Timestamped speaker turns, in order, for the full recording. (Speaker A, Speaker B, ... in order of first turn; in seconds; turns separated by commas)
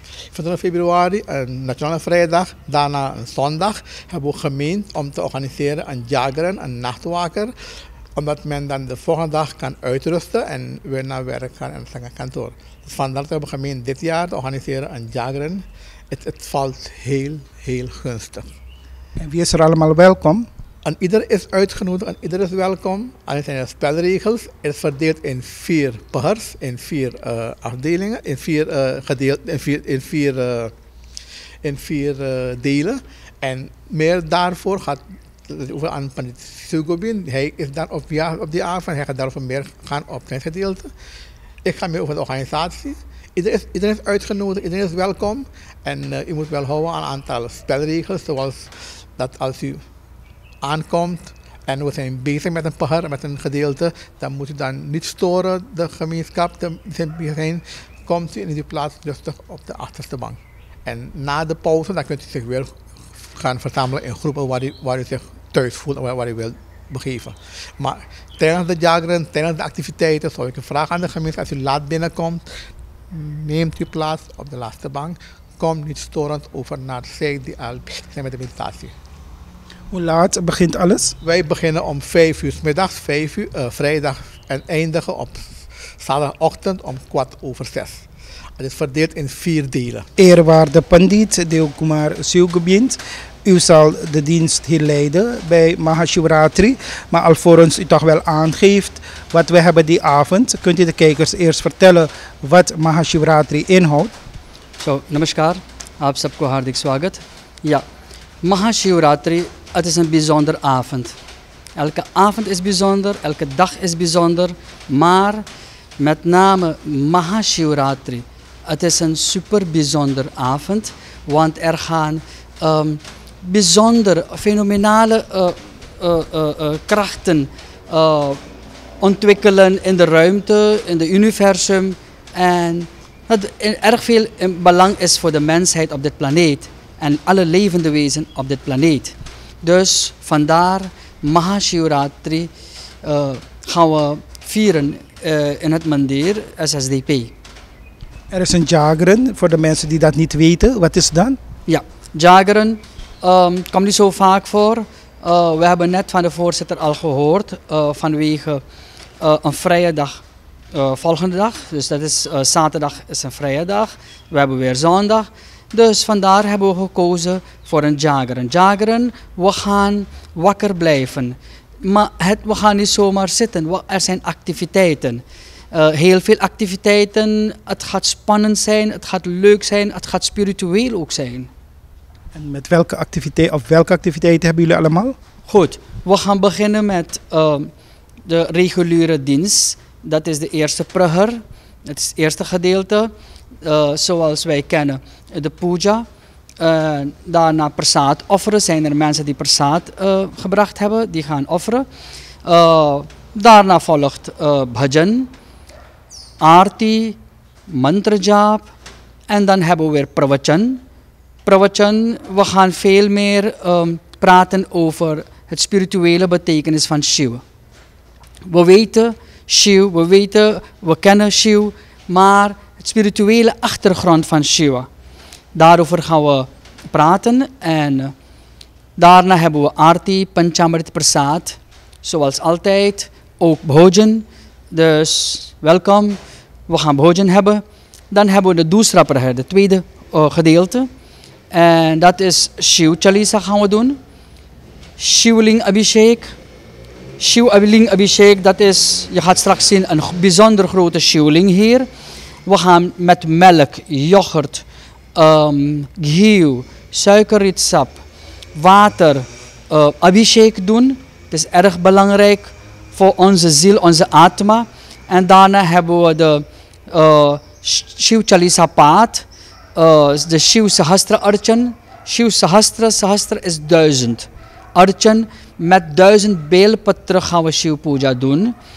Speaker A: 0.3-7.5, Speaker A: 8.1-18.5, Speaker B: 19.2-20.5, Speaker A: 20.8-30.7, Speaker A: 31.6-40.9, Speaker A: 41.6-49.8, Speaker A: 50.6-72.4, Speaker A: 73.1-78.9, Speaker B: 79.9-81.1, Speaker A: 81.2-88.0, Speaker A: 88.6-90.1, Speaker B: 90.2-104.1, Speaker C: 104.8-107.9, Speaker C: 108.4-111.1, Speaker C: 111.8-115.4, Speaker C: 116.0-128.4, Speaker C: 129.0-142.5, Speaker C: 143.0-147.3, Speaker B: 148.3-151.4, Speaker C: 151.7-158.6, Speaker C: 159.2-160.2, Speaker C: 160.7-181.5, Speaker B: 182.3-185.2, Speaker C: 185.5-187.7, Speaker C: 188.3-193.1, Speaker C: 193.6-196.1, Speaker C: 196.6-201.9, Speaker C: 202.4-205.3, Speaker C: 206.4-208.7, Speaker C: 209.3-210.8, Speaker C: 211.4-217.4, Speaker C: 218.5-224.9, Speaker C: 225.6-228.1, Speaker C: 229.0-240.9, Speaker C: 241.5-244.0, Speaker C: 245.0-246.3, Speaker C: 247.2-251.9, Speaker C: 252.4-254.6, Speaker C: 255.1-258.0, Speaker C: 258.6-278.6